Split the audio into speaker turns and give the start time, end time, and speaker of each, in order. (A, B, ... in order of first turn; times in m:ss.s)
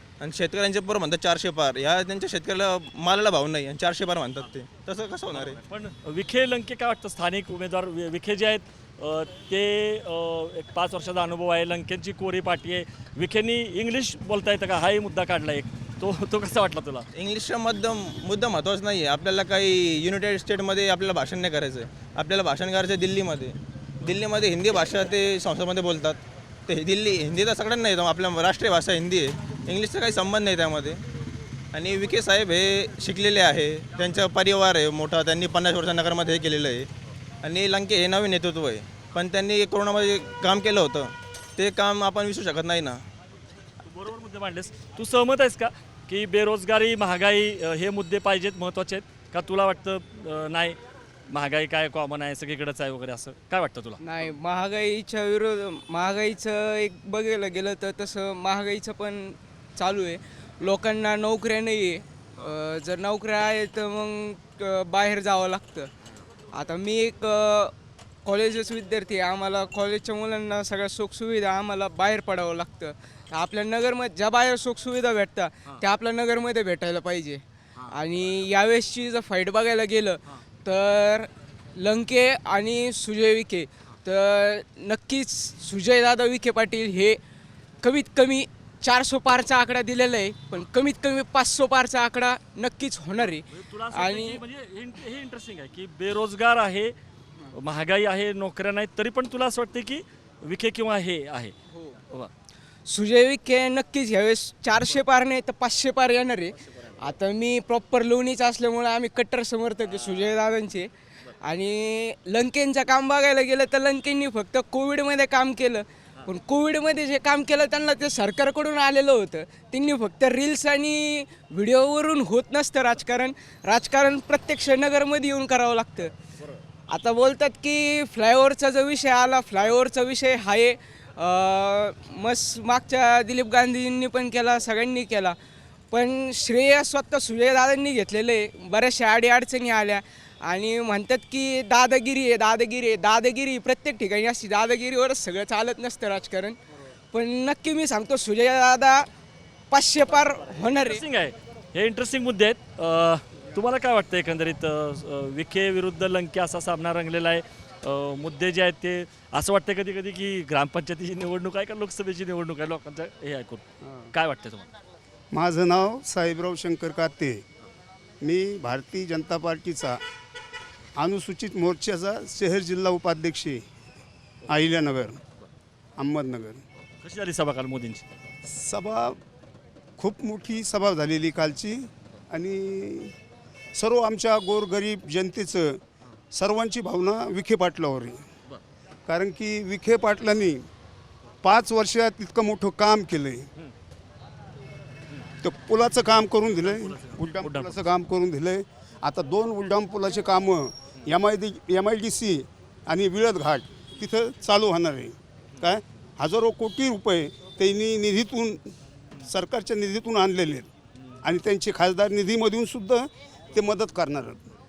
0:00.2-0:05.6 A
0:05.3-0:17.0 B
0:17.1-0:26.2 A
0:26.7-0:31.0 A
0:31.7-0:36.9 A
0:37.4-0:43.0 A
0:43.8-0:50.8 B
0:51.3-0:54.0 B
0:54.0-0:59.2 C
0:59.8-1:01.9 C
1:02.4-1:05.8 C
1:06.6-1:07.7 C
1:08.2-1:17.4 C
1:17.9-1:20.2 C
1:20.7-1:21.2 C
1:21.8-1:27.2 C
1:27.8-1:33.4 C
1:33.5-1:36.9 B
1:33.9-1:34.4 C
1:37.5-1:41.5 B
1:42.9-1:50.8 C
1:51.5-2:06.1 C
2:07.0-2:10.7 C
2:11.2-2:15.3 C
2:15.9-2:20.0 C
2:20.5-2:26.6 C
2:27.1-2:28.9 C
2:29.7-2:31.0 C
2:30.8-2:44.7 B
2:45.3-2:47.4 D
2:48.2-2:50.0 D
2:51.0-2:53.6 D
2:54.5-2:55.2 D
2:56.0-2:56.6 D
2:57.0-2:58.0 B
2:58.5-2:59.2 D
3:00.0-3:03.1 D
3:03.7-3:05.8 D
3:06.3-3:08.2 D
3:09.1-3:10.6 D
3:11.4-3:13.5 D
3:15.4-3:28.6 D
3:16.6-3:17.8 B
3:29.2-3:30.7 D
3:31.2-3:34.4 D